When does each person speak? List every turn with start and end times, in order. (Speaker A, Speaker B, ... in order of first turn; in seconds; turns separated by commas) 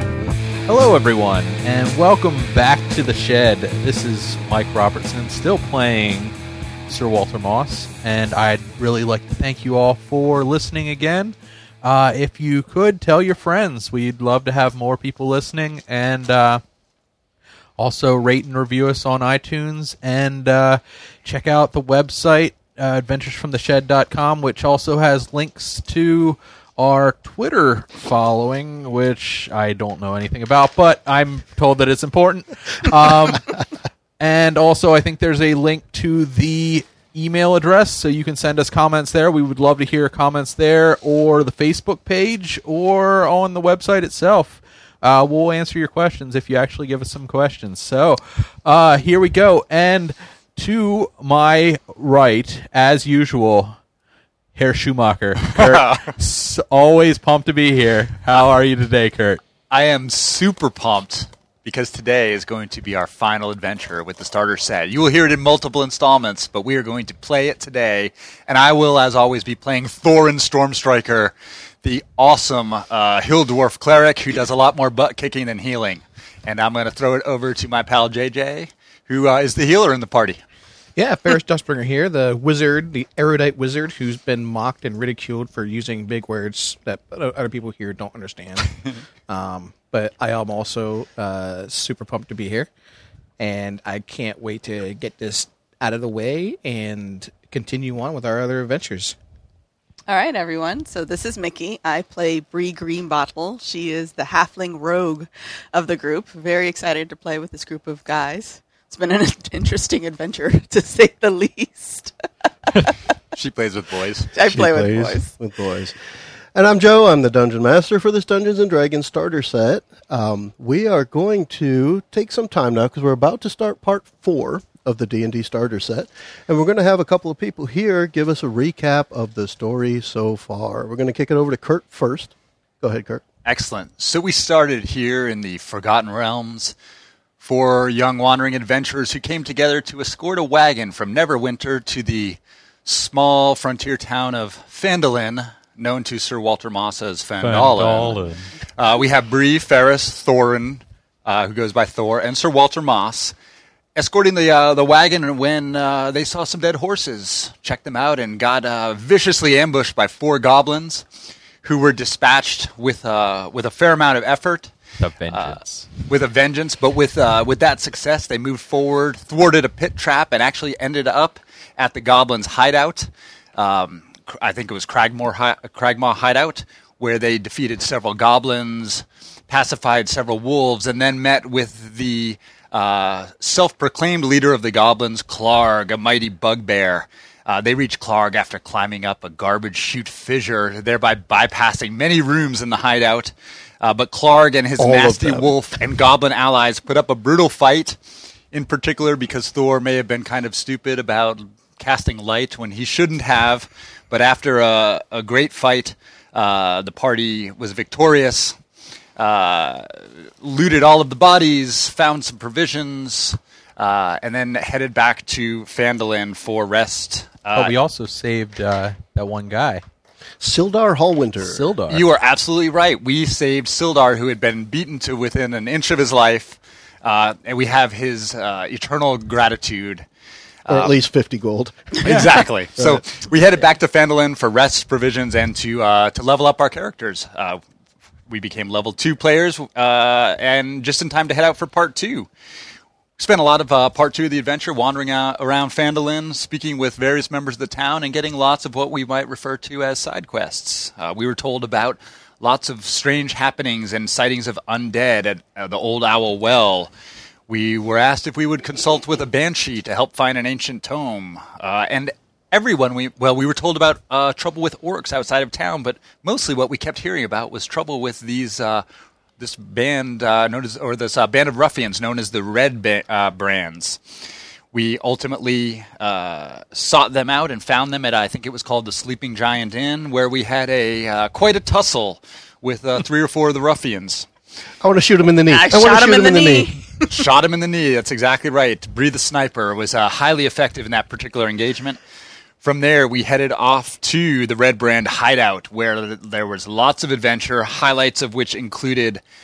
Speaker A: 0.7-6.3, Speaker A: 6.9-16.6, Speaker A: 17.8-33.5, Speaker A: 34.2-53.8, Speaker A: 54.5-59.4, Speaker B: 55.4-56.1, Speaker B: 59.7-80.4, Speaker C: 81.0-88.8, Speaker C: 89.3-92.7, Speaker C: 93.4-99.2, Speaker D: 100.1-112.1, Speaker D: 112.7-112.9, Speaker B: 113.3-114.3, Speaker D: 114.3-115.3, Speaker E: 114.5-116.0, Speaker E: 116.5-133.2, Speaker B: 133.4-136.7, Speaker B: 137.4-148.2, Speaker A: 147.4-148.5, Speaker B: 148.8-153.3, Speaker B: 153.9-161.0, Speaker B: 161.6-164.7, Speaker A: 165.0-165.9, Speaker B: 165.3-198.0, Speaker E: 194.8-195.5, Speaker B: 198.5-208.6, Speaker B: 209.2-217.7, Speaker A: 217.5-219.8, Speaker E: 220.4-221.7, Speaker A: 221.4-222.1, Speaker B: 221.9-230.0, Speaker B: 230.7-230.9, Speaker E: 230.7-232.2, Speaker B: 232.0-237.6, Speaker B: 238.3-242.3, Speaker B: 243.2-256.9, Speaker B: 257.5-268.8, Speaker B: 269.4-274.0, Speaker B: 274.7-284.3, Speaker E: 284.8-286.8, Speaker D: 285.5-287.1, Speaker B: 287.1-292.0, Speaker B: 292.6-299.2